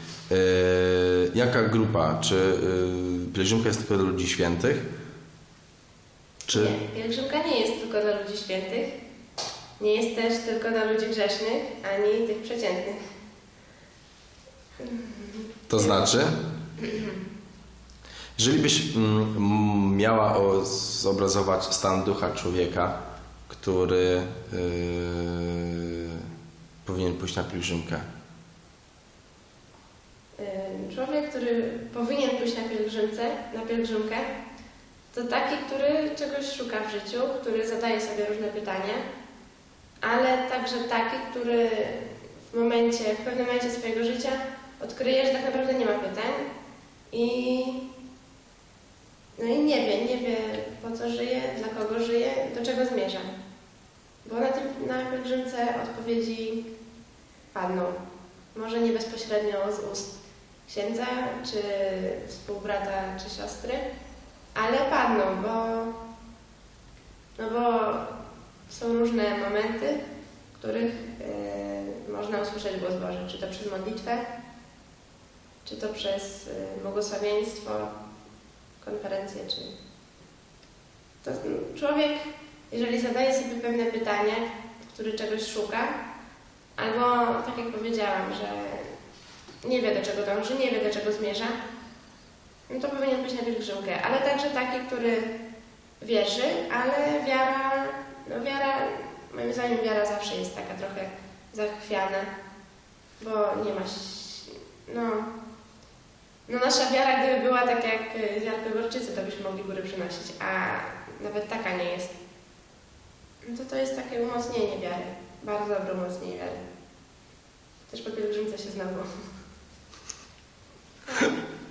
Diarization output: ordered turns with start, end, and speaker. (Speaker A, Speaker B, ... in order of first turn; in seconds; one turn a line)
Speaker A: 0.3-4.9
Speaker A: 6.5-6.8
Speaker B: 6.5-8.9
Speaker B: 9.8-13.0
Speaker B: 14.8-16.1
Speaker A: 15.7-16.3
Speaker B: 16.8-17.2
Speaker A: 18.4-26.3
Speaker A: 26.8-28.1
Speaker B: 30.4-34.3
Speaker B: 35.1-39.0
Speaker B: 40.0-46.5
Speaker B: 47.1-47.8
Speaker B: 49.4-53.3
Speaker B: 54.2-56.6
Speaker B: 57.5-58.0
Speaker B: 58.5-63.9
Speaker B: 64.5-66.0
Speaker B: 67.4-68.2
Speaker B: 68.7-70.0
Speaker B: 70.5-74.2
Speaker B: 75.6-77.9
Speaker B: 78.8-79.7
Speaker B: 81.2-86.0
Speaker B: 86.8-88.9
Speaker B: 89.6-91.5
Speaker B: 92.7-95.3
Speaker B: 96.0-102.3
Speaker B: 103.2-105.3
Speaker B: 106.5-112.2
Speaker B: 113.4-116.6
Speaker B: 117.9-119.1